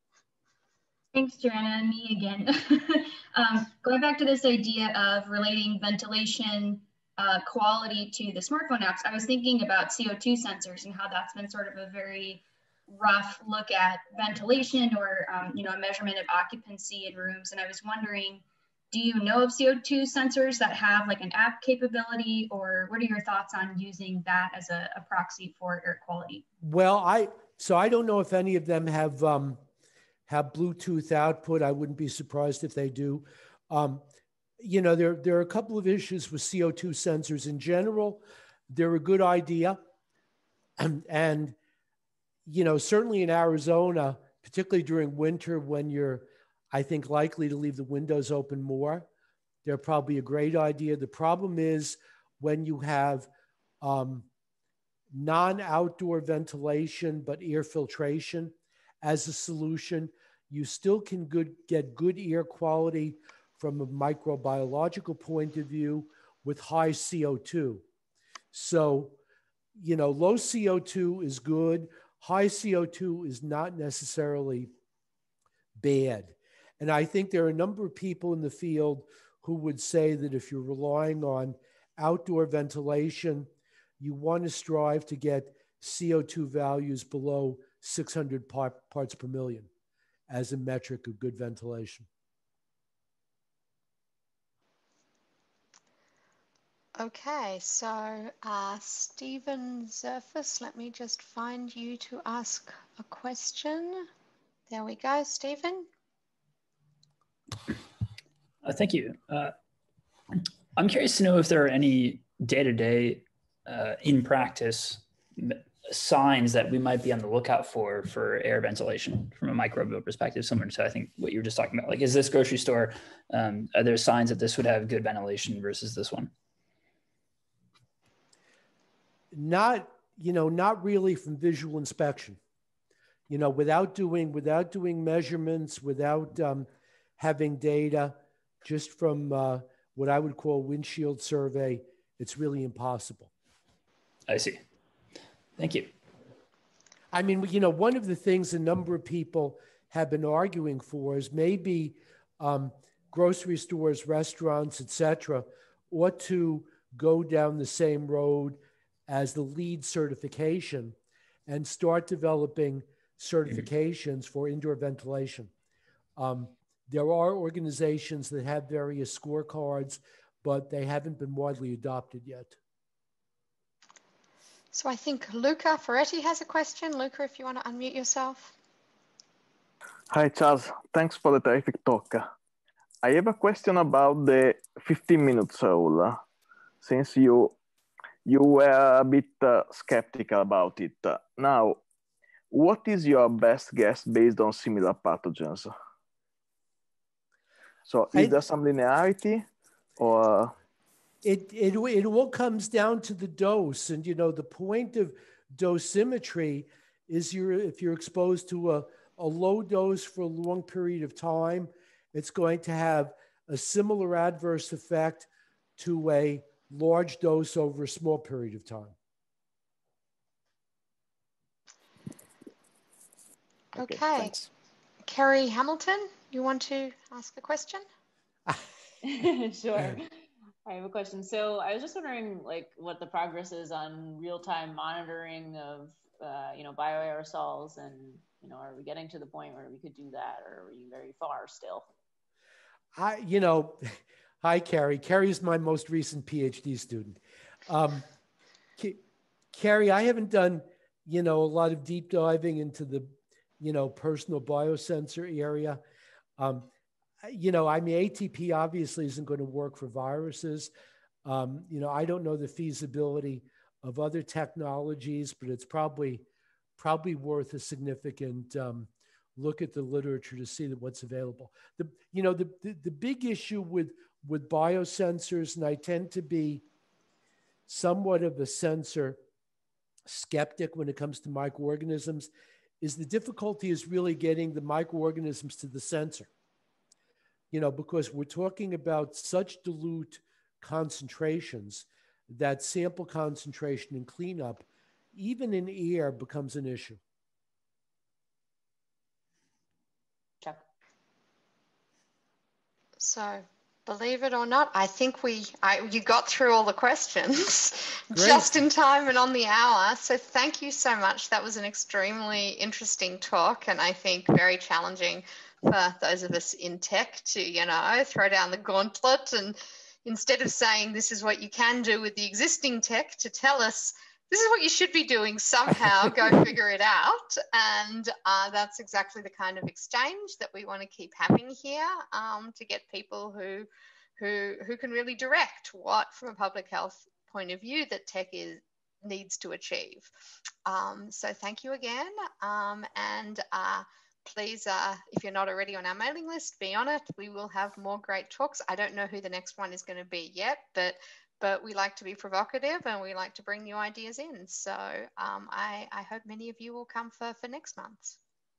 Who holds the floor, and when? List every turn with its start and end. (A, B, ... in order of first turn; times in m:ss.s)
0:01.1-0:26.4 A
0:26.6-0:29.6 B
0:30.3-0:34.0 B
0:34.6-0:39.8 B
0:40.8-0:41.6 B
0:42.5-0:49.1 B
0:49.6-0:53.3 B
0:53.8-0:54.3 B
0:55.1-1:07.8 B
1:08.5-1:09.2 B
1:09.8-1:14.7 B
1:15.8-1:29.7 B
1:30.3-1:32.1 B
1:37.0-1:44.1 C
1:44.7-1:45.9 C
1:48.6-1:49.5 D
1:50.8-2:06.3 D
2:09.3-2:12.4 B
2:13.3-2:16.7 B
2:17.2-2:23.3 B
2:24.3-2:24.6 D
2:25.6-2:25.9 D
2:27.1-2:45.5 B
2:46.2-2:52.6 B
2:54.7-2:58.6 C
3:00.1-3:02.3 E
3:03.0-3:06.2 E
3:06.8-3:07.6 E
3:08.3-3:11.8 E
3:12.5-3:15.7 E
3:17.9-3:19.5 E
3:18.1-3:18.4 B
3:20.0-3:20.6 E
3:21.2-3:39.0 B
3:43.8-3:44.4 C
3:45.0-3:47.8 C
3:49.0-3:50.1 F
3:50.7-4:01.9 F
4:03.0-4:08.1 B
4:09.5-4:15.8 B
4:16.4-4:16.7 B
4:17.2-4:20.7 B
4:21.2-4:26.2 B
4:26.8-4:36.6 B
4:37.7-4:39.2 B
4:40.1-4:42.3 B
4:42.8-4:46.3 B
4:47.5-4:57.0 B
5:03.0-5:40.1 C
5:08.1-5:08.5 B
5:40.7-5:58.2 C